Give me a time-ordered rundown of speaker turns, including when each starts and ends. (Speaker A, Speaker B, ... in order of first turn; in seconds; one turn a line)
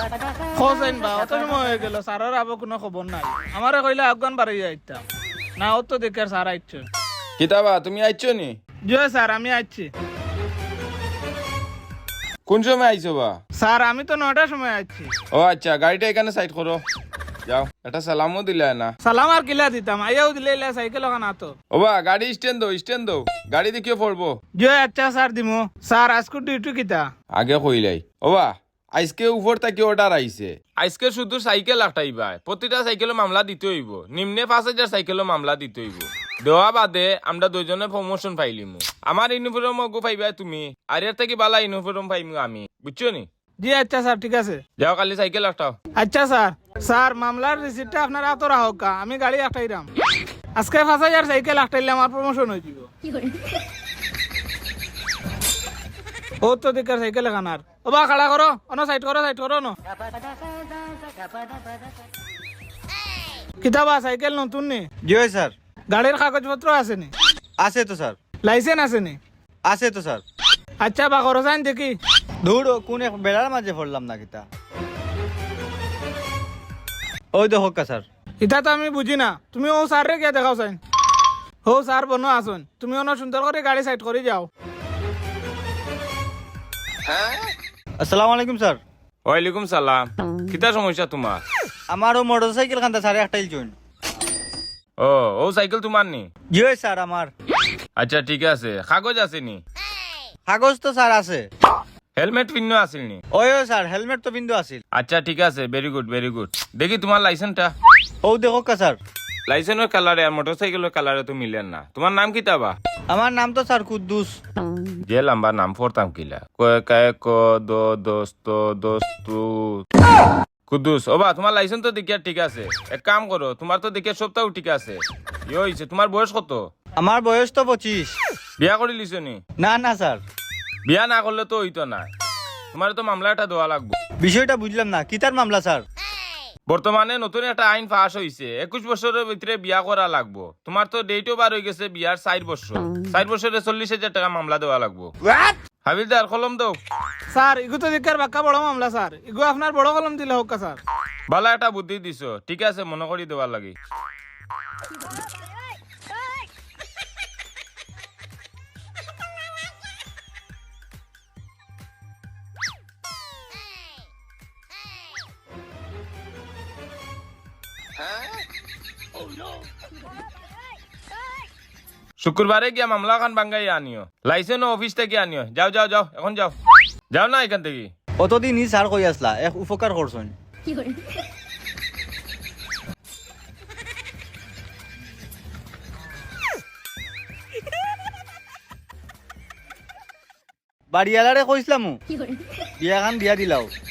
Speaker A: 0.6-5.0
Speaker A: 5.6-6.8
Speaker B: 7.4-8.5
Speaker A: 8.9-9.9
Speaker B: 12.4-13.3
Speaker A: 13.6-15.1
Speaker B: 15.3-16.8
Speaker B: 17.5-18.9
Speaker A: 19.0-21.5
Speaker B: 21.7-24.3
Speaker A: 24.5-27.1
Speaker B: 27.3-43.2
Speaker A: 43.6-44.6
Speaker B: 44.8-45.8
Speaker A: 46.0-49.9
Speaker A: 50.6-52.9
Speaker A: 56.4-59.7
Speaker A: 63.6-64.9
Speaker C: 65.0-65.5
Speaker A: 65.9-67.1
Speaker C: 67.6-68.2
Speaker A: 68.4-69.2
Speaker C: 69.7-70.2
Speaker A: 70.8-72.0
Speaker C: 72.4-74.4
Speaker C: 77.3-78.0
Speaker A: 78.4-80.8
Speaker A: 81.6-84.5
Speaker C: 88.0-88.8
Speaker B: 89.2-91.4
Speaker C: 91.9-93.7
Speaker B: 95.0-96.3
Speaker C: 96.5-97.3
Speaker B: 98.0-99.6
Speaker C: 100.5-101.5
Speaker B: 102.1-103.2
Speaker C: 103.3-104.8
Speaker B: 104.9-107.7
Speaker C: 108.2-109.0
Speaker B: 109.5-112.7
Speaker C: 113.1-114.3
Speaker B: 115.0-119.8
Speaker B: 120.7-126.6
Speaker C: 127.0-128.1
Speaker B: 128.6-129.4
Speaker C: 129.6-130.2
Speaker B: 130.9-132.1
Speaker B: 132.7-133.9
Speaker C: 134.2-135.8
Speaker B: 136.7-145.1
Speaker B: 145.8-146.7
Speaker A: 147.3-150.8
Speaker B: 151.3-153.7
Speaker B: 172.2-176.5
Speaker B: 177.1-177.9
Speaker C: 178.2-180.3
Speaker C: 190.9-191.9
Speaker C: 192.8-193.7